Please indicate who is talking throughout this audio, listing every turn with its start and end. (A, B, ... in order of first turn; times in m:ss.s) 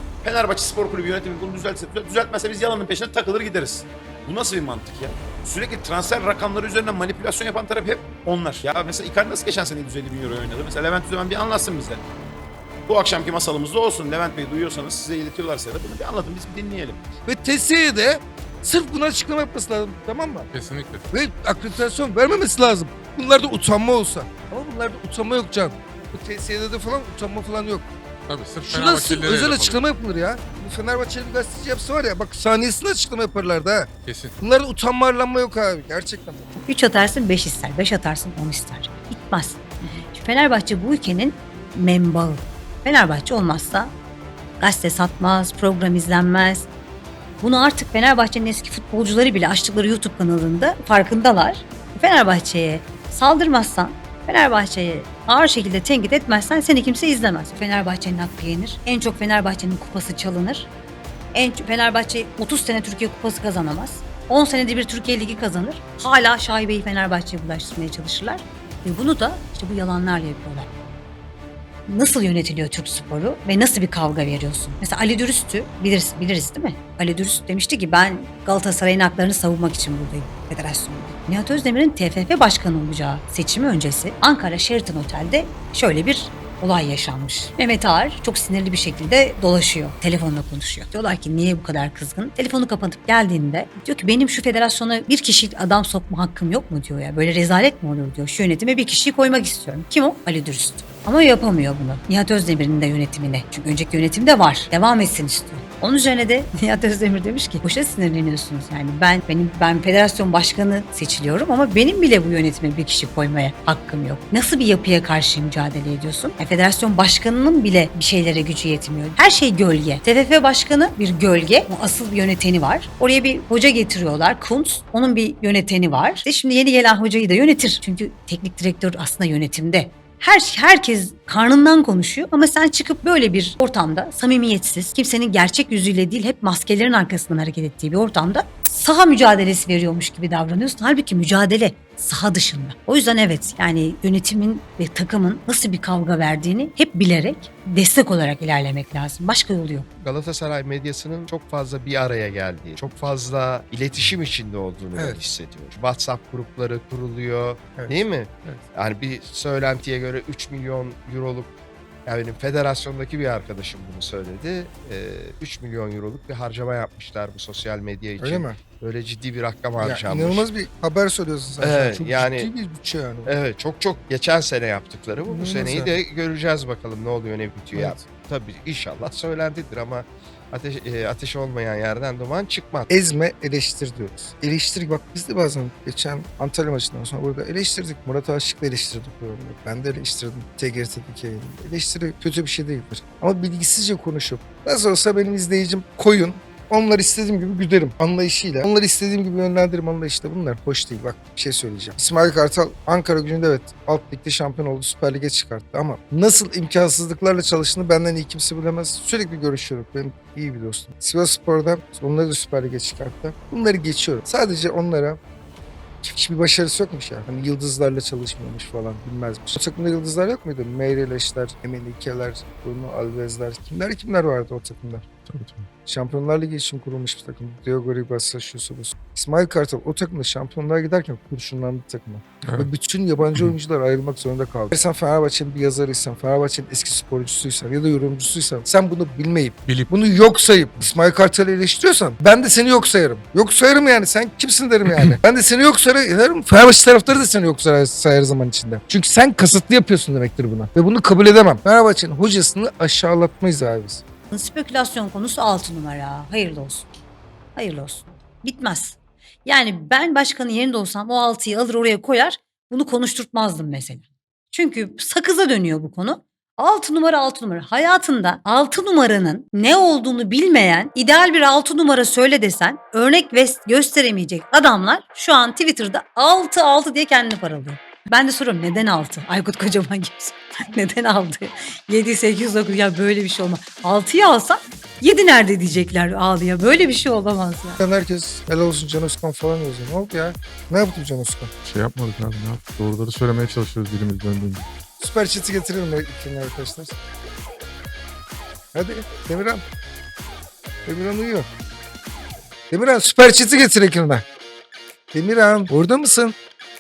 0:00.2-0:12.0 A
0:12.9-0:17.0 A
0:17.3-0:20.5 B
0:20.5-0:21.0 C
0:21.1-0:27.9 B
0:28.3-0:29.8 C
0:28.7-0:33.9 B
0:34.1-0:34.3 C
0:34.4-0:36.5 B
0:36.6-0:43.9 D
0:44.6-0:46.7 D
0:47.4-1:00.7 D
1:01.3-1:10.7 D
1:11.9-2:29.9 D
2:30.0-2:41.5 E
2:37.8-2:38.6 B
2:42.1-2:50.5 E
2:48.2-2:48.6 B
2:49.8-2:53.3 B
2:51.6-2:52.5 E
2:53.3-3:02.9 E
2:55.3-2:56.0 B
3:02.9-3:35.2 B
3:36.0-3:45.0 B
3:45.3-3:45.7 C
3:45.8-4:14.0 B
4:14.3-4:16.9 D
4:17.6-4:47.8 D
4:47.8-4:51.5 B
4:51.6-4:54.7 C
4:55.0-4:57.0 B
4:58.7-4:59.6 B
5:00.9-5:01.5 B
5:02.7-5:04.2 B
5:05.1-5:06.4 B